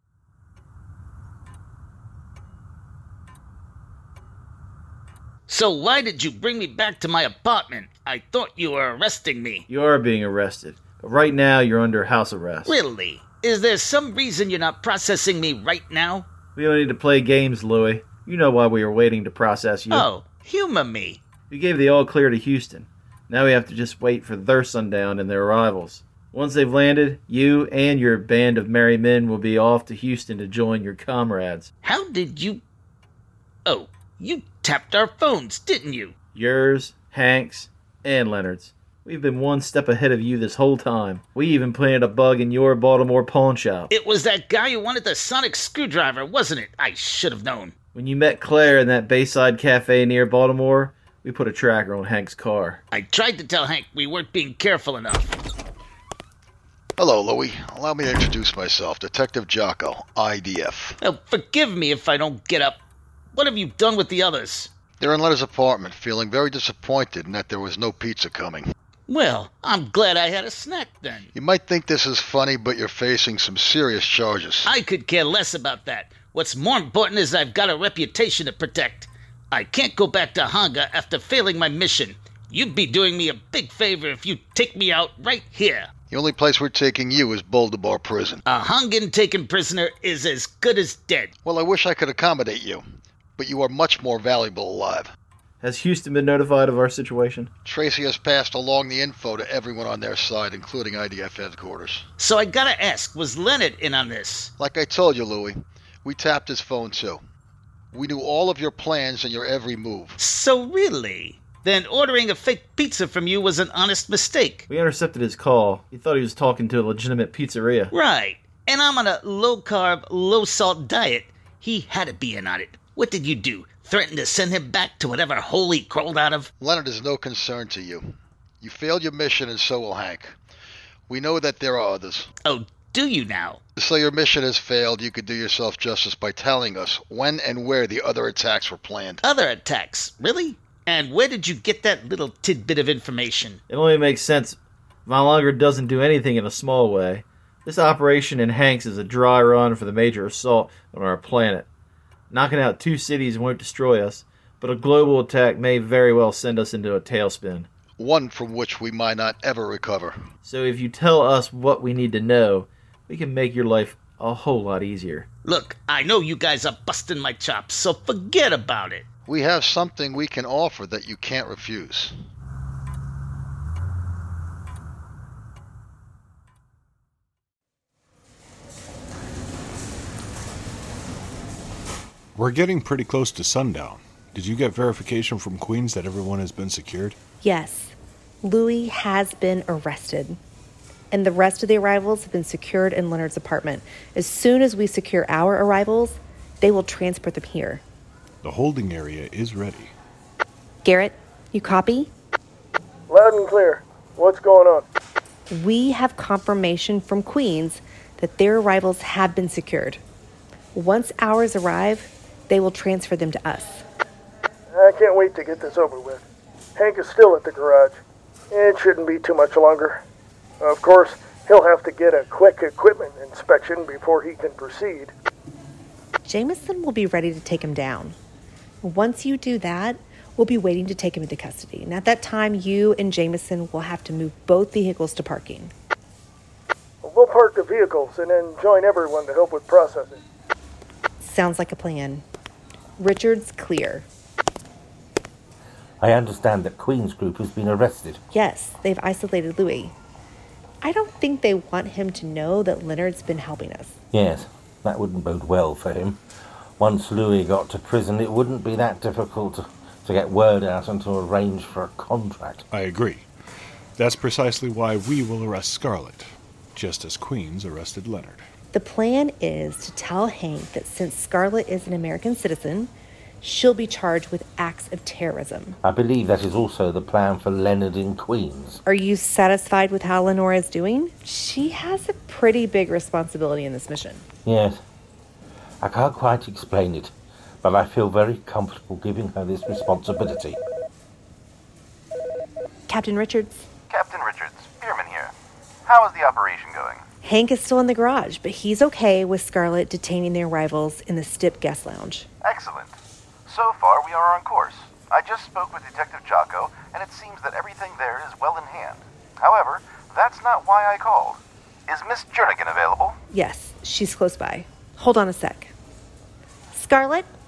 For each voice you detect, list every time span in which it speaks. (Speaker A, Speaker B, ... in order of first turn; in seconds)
Speaker A: 5.5-9.7, 12.7-16.2, 19.9-21.2, 31.8-32.6, 33.6-36.1, 43.9-47.7, 52.9-55.4, 61.0-62.8, 63.3-64.7, 69.1-71.3, 74.6-85.9, 88.5-91.3, 102.2-104.5, 110.2-114.7, 117.9-126.5, 132.4-133.6, 139.2-143.6, 165.4-169.1
Speaker B: 9.7-12.8, 16.6-20.1, 21.5-31.7, 36.3-43.9, 48.0-52.8, 95.6-97.5, 114.7-117.9, 143.7-151.7, 152.3-157.7, 160.4-165.2
Speaker C: 57.0-61.0, 65.0-68.7, 71.3-74.7, 86.1-88.4, 91.5-92.9, 93.4-95.1, 97.6-102.0, 104.6-107.2, 107.9-110.2, 126.6-130.4, 131.1-132.3, 133.8-139.2, 158.0-160.2, 169.2-172.1
Speaker D: 182.4-187.2, 198.4-199.9, 262.7-263.2, 264.0-268.4
Speaker E: 187.4-190.4, 191.1-197.8, 200.8-202.1, 205.5-210.0, 210.7-213.8, 226.2-228.2, 228.8-235.7, 241.2-242.2, 243.0-244.1, 248.3-249.9, 250.8-254.0, 268.7-275.8, 278.9-284.2, 292.9-293.5, 297.2-302.3, 313.3-315.7, 316.7-317.3
Speaker F: 203.1-204.9, 214.7-216.2, 216.8-218.0, 218.5-220.0, 220.6-225.1, 237.0-240.2
Speaker G: 246.0-248.2, 254.1-256.2, 256.8-262.6, 275.8-278.8, 284.4-284.8, 285.8-290.6
Speaker H: 293.9-295.3, 295.9-297.0, 302.4-302.9, 303.5-313.2